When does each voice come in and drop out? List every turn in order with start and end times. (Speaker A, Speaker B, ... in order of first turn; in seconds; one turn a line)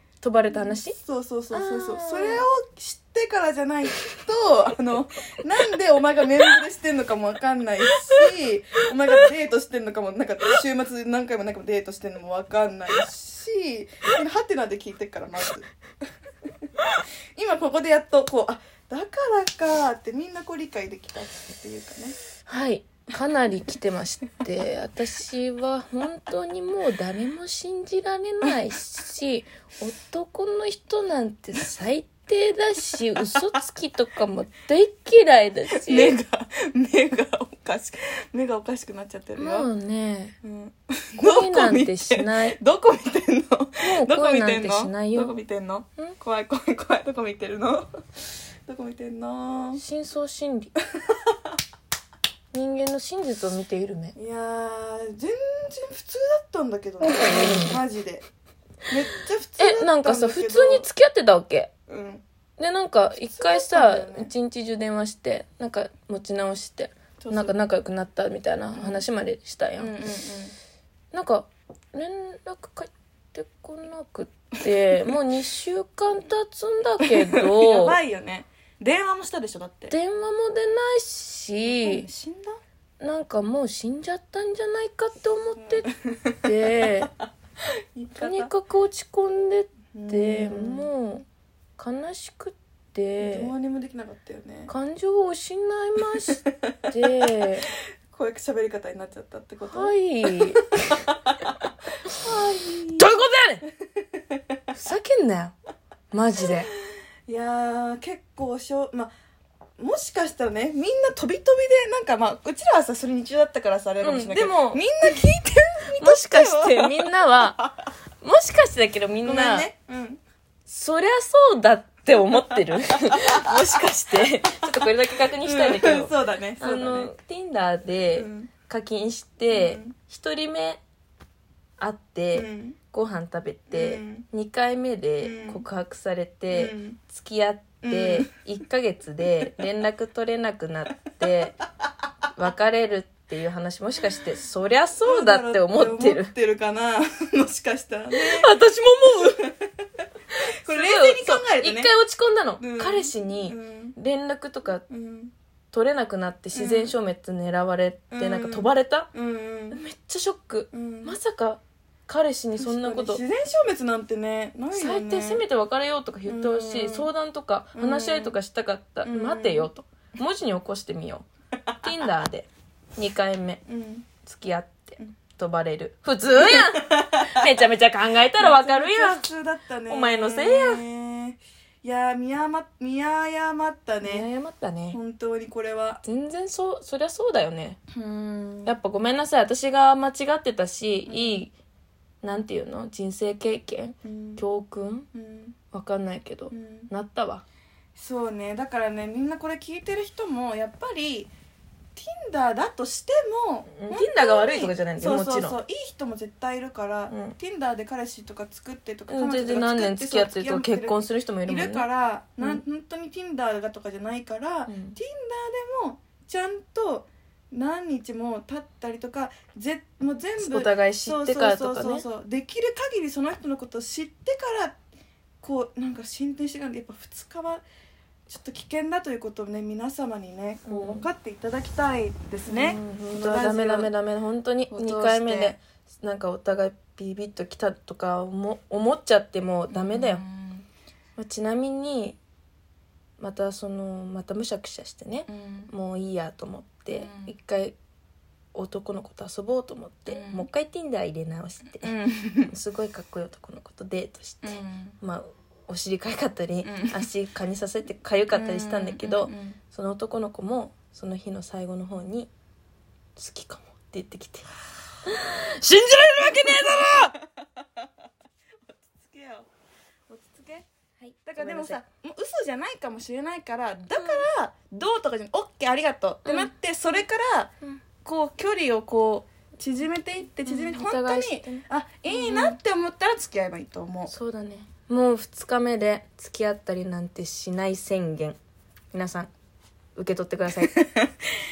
Speaker A: 0.2-1.0
Speaker B: 0.5-15.7
Speaker A: 1.5-2.5
Speaker B: 17.4-22.2
Speaker A: 22.5-36.2
Speaker B: 35.7-39.7
Speaker A: 39.4-40.4
Speaker B: 40.4-47.9
Speaker A: 41.2-42.6
Speaker A: 43.8-45.4
Speaker B: 48.7-49.8
Speaker A: 49.8-50.7
Speaker A: 52.5-54.2
Speaker B: 54.2-58.2
Speaker A: 57.0-57.8
Speaker B: 58.9-60.9
Speaker A: 59.6-61.7
Speaker B: 61.9-62.2
Speaker A: 62.6-69.9
Speaker B: 63.2-64.3
Speaker B: 67.2-67.6
Speaker B: 68.7-69.0
Speaker B: 69.8-70.5
Speaker A: 71.1-78.0
Speaker B: 77.1-80.0
Speaker A: 79.9-82.1
Speaker B: 81.6-82.6
Speaker A: 83.0-85.9
Speaker B: 85.6-86.9
Speaker A: 86.4-87.1
Speaker B: 88.0-88.5
Speaker A: 88.2-91.3
Speaker B: 89.9-90.9
Speaker A: 91.8-93.5
Speaker B: 93.2-94.7
Speaker A: 94.7-97.7
Speaker B: 96.4-96.9
Speaker B: 98.1-101.5
Speaker A: 99.6-100.6
Speaker B: 102.1-103.1
Speaker A: 103.0-103.6
Speaker A: 104.7-105.5
Speaker A: 106.1-106.7
Speaker B: 107.3-109.1
Speaker B: 109.8-117.7
Speaker A: 114.0-115.2
Speaker A: 116.0-117.6
Speaker A: 118.2-119.7
Speaker B: 119.2-120.2
Speaker A: 120.7-130.8
Speaker B: 123.1-123.4
Speaker B: 125.4-127.1
Speaker B: 128.2-128.5
Speaker B: 129.5-130.0
Speaker A: 131.8-141.6
Speaker B: 132.3-132.8
Speaker B: 133.7-134.2
Speaker B: 135.2-135.6
Speaker B: 136.5-137.0
Speaker B: 137.8-138.3
Speaker A: 142.3-146.3
Speaker B: 145.0-148.5
Speaker A: 148.1-149.4
Speaker B: 149.2-149.7
Speaker B: 150.7-151.9
Speaker A: 150.7-154.8
Speaker B: 152.6-154.0
Speaker B: 154.9-155.3
Speaker A: 155.7-159.1
Speaker B: 156.5-156.9
Speaker B: 158.1-159.8
Speaker A: 159.7-163.2
Speaker B: 160.7-161.2
Speaker B: 162.6-165.4
Speaker A: 164.7-171.3
Speaker B: 166.3-167.1
Speaker B: 167.7-168.4
Speaker B: 169.0-169.7
Speaker A: 171.8-173.6
Speaker B: 173.7-174.1
Speaker A: 174.2-179.3
Speaker B: 176.4-177.3
Speaker B: 178.4-184.3
Speaker A: 179.9-180.8
Speaker A: 184.0-185.0
Speaker B: 184.9-186.0
Speaker A: 186.0-187.8
Speaker B: 187.9-188.8
Speaker A: 188.7-191.5
Speaker B: 191.1-191.4
Speaker A: 192.2-195.1
Speaker B: 194.0-194.4
Speaker B: 195.1-195.6
Speaker A: 195.7-197.4
Speaker B: 196.5-196.9
Speaker B: 198.0-201.3
Speaker B: 202.0-224.8
Speaker A: 203.8-205.6
Speaker A: 207.1-207.4
Speaker A: 209.1-211.9
Speaker A: 214.7-215.0
Speaker A: 220.4-222.1
Speaker B: 225.4-227.6
Speaker B: 228.3-233.9
Speaker A: 230.7-231.1
Speaker A: 232.5-240.2
Speaker B: 234.7-235.6
Speaker B: 239.7-240.7
Speaker A: 241.2-242.2
Speaker A: 243.2-247.8
Speaker B: 245.3-245.7
Speaker B: 246.9-247.3
Speaker A: 248.5-251.9
Speaker B: 250.1-250.5
Speaker B: 251.8-252.5
Speaker A: 252.5-262.3
Speaker B: 254.4-255.0
Speaker B: 256.6-257.0
Speaker B: 258.3-259.6
Speaker A: 263.2-264.5
Speaker A: 265.1-267.1
Speaker B: 266.2-267.4
Speaker B: 268.7-269.5
Speaker B: 270.1-270.7
Speaker A: 271.0-271.8
Speaker B: 271.2-284.1
Speaker A: 273.9-274.3
Speaker A: 276.2-277.0
Speaker A: 280.4-282.6
Speaker A: 284.1-288.4
Speaker A: 288.9-289.3
Speaker A: 290.0-290.7
Speaker B: 290.7-291.1